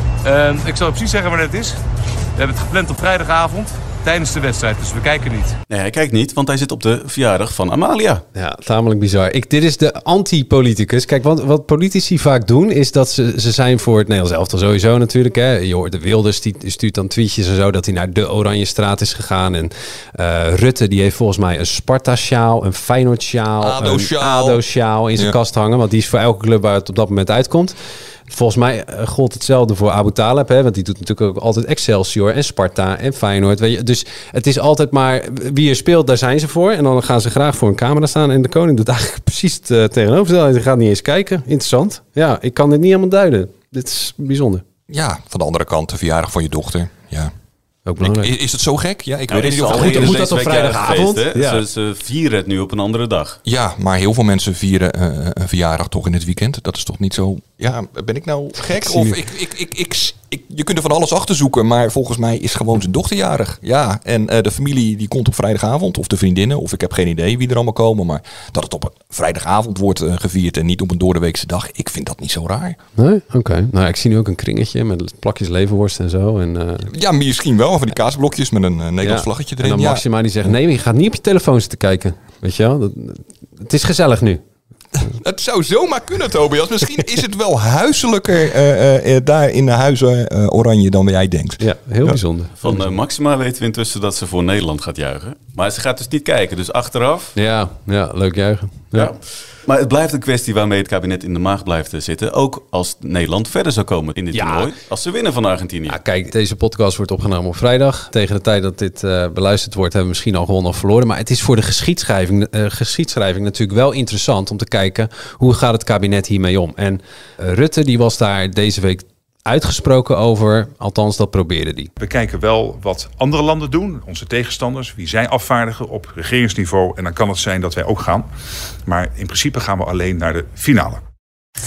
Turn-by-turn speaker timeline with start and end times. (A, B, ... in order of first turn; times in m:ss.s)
0:00.2-0:01.8 A
0:02.4-0:05.6 A
0:05.7-0:08.2 B
0:08.3-0:27.8 C
0:23.6-0:24.6 D
0:28.3-0:44.6 C
0:44.9-0:47.3 D
0:47.8-0:48.3 C
0:48.0-0:50.6 D
0:49.3-0:53.4 B
0:49.6-0:51.6 C
0:53.4-1:12.8 D
0:58.8-0:59.2 C
1:13.0-1:16.9 C
1:16.9-1:20.0 D
1:19.0-1:24.4 C
1:25.0-1:32.2 D
1:31.6-1:32.8 C
1:32.6-1:37.3 B
1:37.3-1:39.1 C
1:38.9-1:46.0 B
1:44.3-1:44.7 C
1:45.9-2:01.9 C
2:02.0-2:08.3 E
2:08.8-2:11.0 E